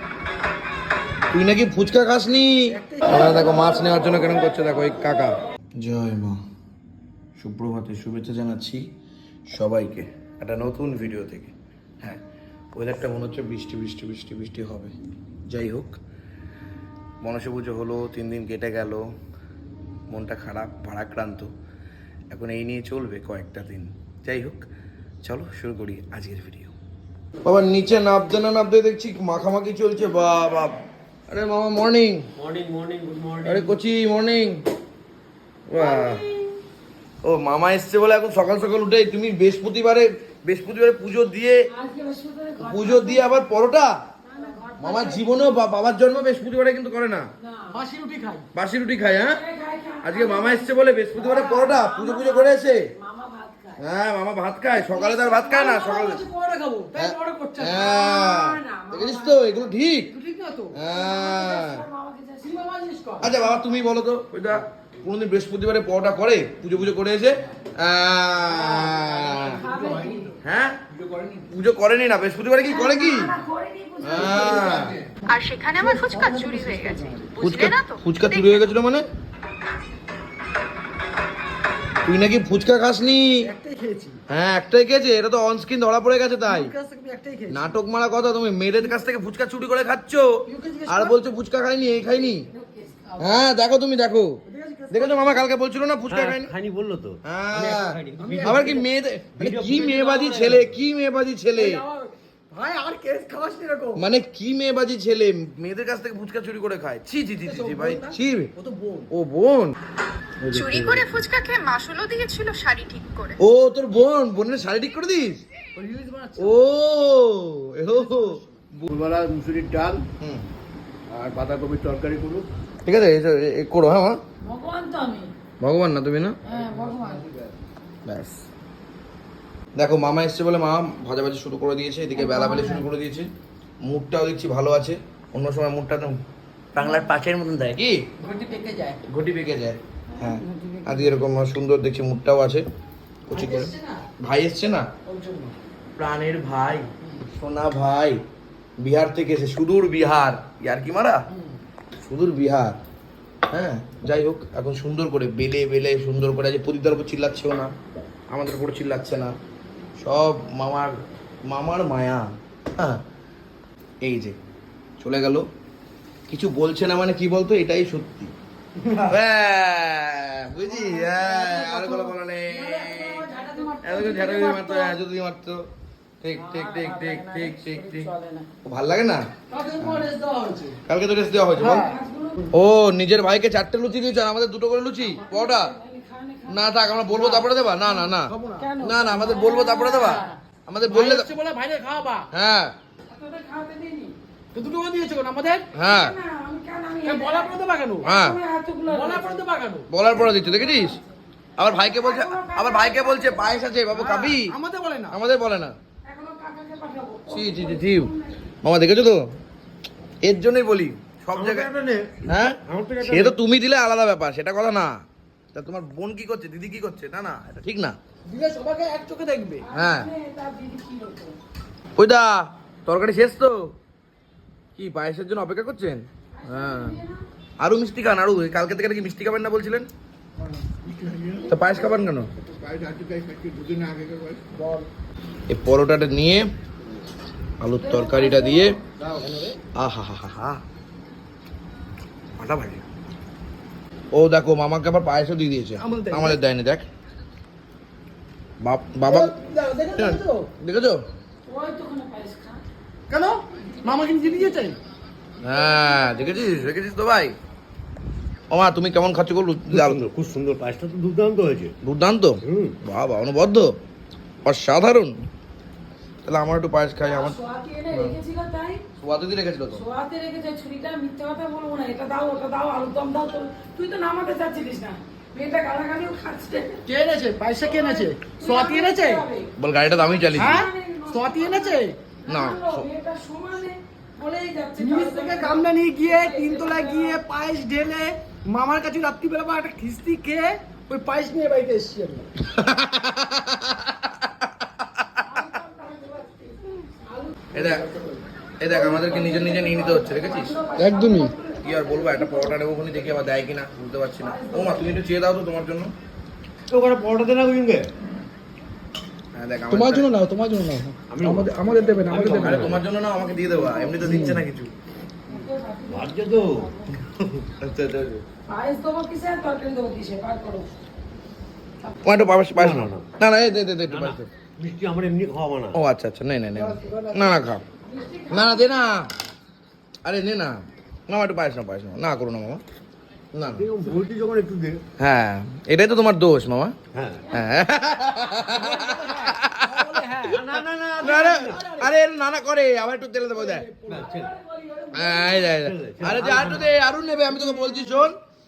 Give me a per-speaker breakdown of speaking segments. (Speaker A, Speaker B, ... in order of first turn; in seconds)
Speaker A: 1.3-6.4, 7.4-8.8, 9.5-12.2, 12.7-14.9, 15.5-16.0, 17.2-19.0, 20.1-21.5, 22.3-24.6, 25.2-26.7, 27.4-30.7, 31.3-32.3, 33.4-34.6, 35.7-36.2, 37.2-41.6, 42.6-43.9, 44.8-47.2, 48.5-49.4, 50.0-52.8, 53.8-56.2, 57.0-60.1, 60.7-61.8, 63.2-69.6, 70.4-70.8, 71.5-73.3, 74.0-75.0, 77.4-79.0, 82.0-83.5, 84.3-86.7, 87.5-90.3, 90.9-92.4, 93.2-94.3, 94.9-96.5, 97.2-101.8, 104.0-108.5, 109.1-109.8, 110.4-111.1, 113.4-115.4, 116.4-118.9, 120.2-120.5, 122.8-124.2, 125.6-126.4, 128.1-128.4, 129.8-133.3, 133.8-136.2, 137.7-138.0, 139.1-142.7, 143.3-144.8, 145.9-148.2, 148.8-151.2, 152.0-152.8, 153.5-157.7, 158.3-159.3, 160.0-163.0, 164.0-164.4, 165.0-165.4, 166.3-168.3, 168.9-175.6, 176.2-178.1, 178.6-179.2, 179.8-180.1, 180.9-181.9, 182.5-185.7, 186.5-191.3, 192.3-192.7, 195.8-196.2, 198.0-198.4, 199.9-201.0, 201.6-204.5, 205.1-205.7, 207.3-208.1, 208.6-209.2, 210.2-211.7, 212.2-214.9, 215.5-218.0, 219.7-220.1, 222.0-223.6, 224.8-227.0, 227.6-229.9, 231.4-232.3, 235.5-236.4, 237.6-238.8, 239.8-240.6, 242.4-242.8, 244.1-246.8, 248.6-249.3, 249.9-251.0, 255.4-257.3, 258.5-260.0, 261.8-263.7, 264.4-265.1, 266.2-267.4, 269.0-269.8, 279.6-280.7, 282.3-282.9, 292.5-294.1, 297.5-297.9, 298.6-300.6, 301.6-305.9, 309.3-310.1, 312.1-314.7, 317.4-318.2, 322.0-324.3, 325.7-327.6, 328.3-329.1, 330.0-332.6, 333.3-333.7, 335.0-336.7, 337.3-339.9, 341.0-343.7, 344.9-348.1
Speaker B: 2.7-3.5, 47.7-48.4, 55.5-57.9, 60.1-60.8, 62.4-63.3, 68.5-70.4, 70.9-71.5, 74.2-75.1, 75.8-77.3, 83.4-84.2, 86.4-87.7, 90.5-91.2, 92.6-93.3, 94.5-95.4, 98.1-98.8, 99.8-100.2, 101.5-104.0, 107.4-109.1, 115.8-116.5, 118.9-119.9, 121.1-121.5, 122.0-122.4, 126.6-127.2, 138.2-139.0, 143.3-144.0, 145.1-145.5, 170.8-174.9, 179.5-180.8, 181.6-181.9, 187.1-187.4, 188.2-188.7, 190.8-192.3, 194.5-195.6, 197.0-198.1, 198.9-199.8, 203.9-205.2, 218.3-219.7, 230.4-231.5, 232.5-234.8, 239.0-239.6, 245.8-246.4, 249.1-250.5, 253.1-254.8, 276.9-279.2, 280.4-281.9, 284.8-292.3, 300.8-301.3, 309.7-312.7, 326.6-327.4, 338.5-340.4, 341.5-341.9, 343.4-345.4
Speaker C: 32.4-33.8, 96.1-98.8, 99.3-100.8, 118.9-120.0, 121.3-122.4, 136.7-137.8, 211.3-213.4, 259.7-261.7, 262.4-262.8, 306.7-307.9, 311.1-312.8, 314.0-314.4, 315.9-316.7, 322.6-323.1, 323.9-325.8, 333.5-334.8, 336.9-337.3, 340.2-341.8, 343.9-344.4, 345.3-346.7
Speaker D: 35.8-36.5, 41.7-43.4, 44.2-45.3, 47.4-47.8, 49.3-53.8, 54.7-55.7, 57.7-59.7, 60.9-62.6, 69.5-70.3, 72.6-74.9, 124.4-125.3, 126.5-127.3, 132.2-132.8, 140.1-141.1, 176.4-178.5, 181.7-182.5, 185.0-186.6, 188.6-190.3, 193.1-194.1, 195.8-199.4, 200.2-201.1, 201.6-203.7, 206.0-208.6, 219.6-221.4, 226.3-227.2, 237.8-238.8, 251.4-252.6, 253.8-254.5, 267.0-268.8, 269.7-276.8, 277.7-287.2, 295.3-297.4, 298.7-302.6, 304.2-305.0, 313.1-314.0, 315.3-317.0, 318.5-320.7, 327.8-328.8
Speaker E: 75.3-78.7, 110.5-113.4